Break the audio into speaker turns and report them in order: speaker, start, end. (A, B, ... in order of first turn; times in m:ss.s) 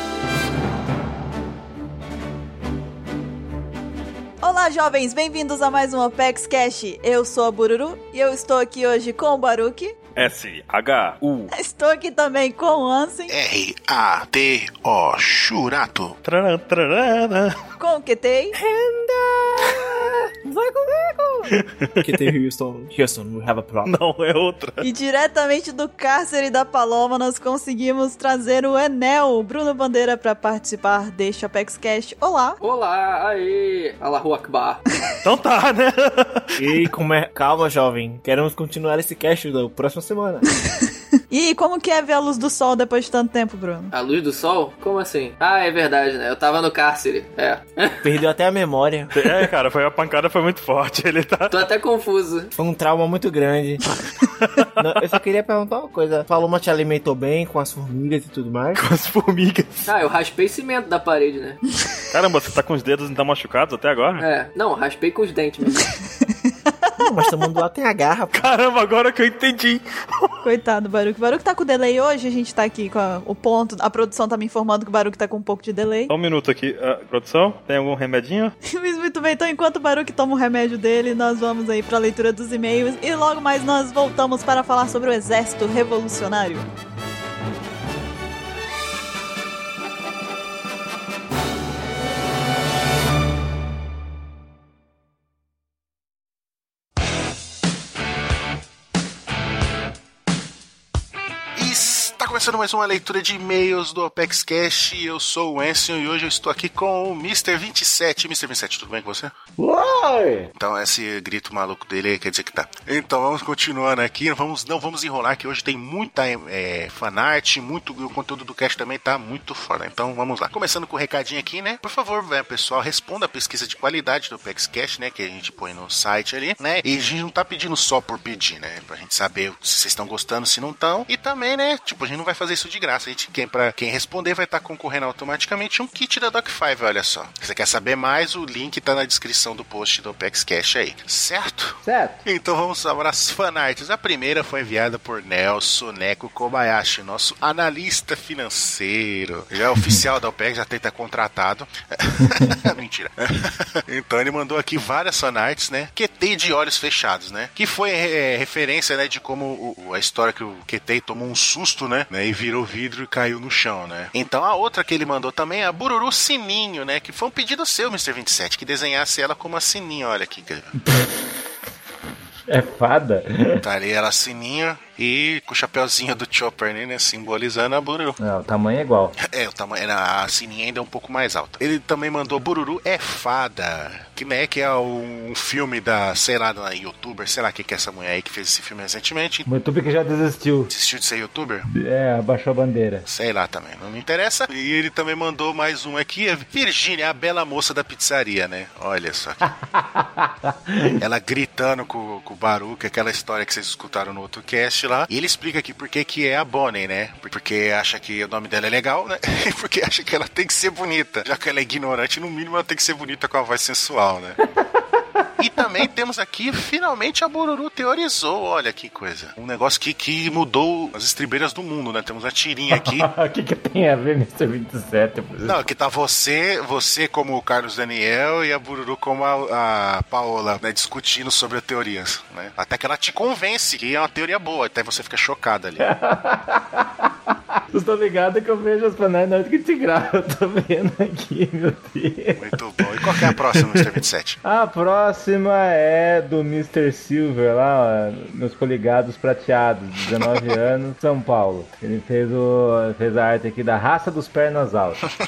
0:04.4-0:10.0 A
0:10.2-0:11.5 B
0:11.5-0:13.3 A
0:13.3-0:16.2 C
0:16.2-0:17.6 B
0:17.8-0:18.6 A
0:18.5-0:24.0 D
0:21.5-0:22.2 B
0:23.8-0:24.9 B
0:24.8-0:32.6 A
0:32.6-0:34.8 E
0:35.2-0:36.6 B
0:36.6-0:40.5 D
0:41.3-0:43.9 A
0:43.9-0:48.0 E
0:48.0-0:49.5 D
0:49.1-0:51.5 B
0:51.5-0:52.5 E
0:52.6-0:53.8 D
0:54.2-0:54.8 B
0:54.8-0:58.8 D
0:58.8-0:59.9 B
0:59.9-1:01.6 E
1:02.1-1:04.2 B
1:04.2-1:05.9 E
1:06.8-1:07.2 A
1:07.0-1:08.5 D
1:08.3-1:10.4 B
1:10.4-1:16.1 A
1:16.1-1:18.6 B
1:18.7-1:26.7 A
1:41.6-1:49.3 C
1:49.6-1:50.5 F
1:50.6-2:50.8 C
2:21.8-2:22.2 F
2:32.2-2:32.6 F
2:52.5-2:53.6 F
2:53.6-2:58.2 C
2:58.2-2:59.2 F
2:59.2-3:09.5 C
3:09.5-3:10.7 F
3:10.7-3:11.7 C
3:11.7-3:13.1 F
3:13.1-3:19.5 C
3:19.5-3:21.0 F
3:21.0-3:34.4 C
3:34.6-3:35.8 F
3:35.4-3:43.1 C
3:42.7-3:45.6 F
3:45.4-3:55.9 C
3:55.8-4:03.9 F
4:02.4-4:04.4 C
4:04.4-4:15.0 F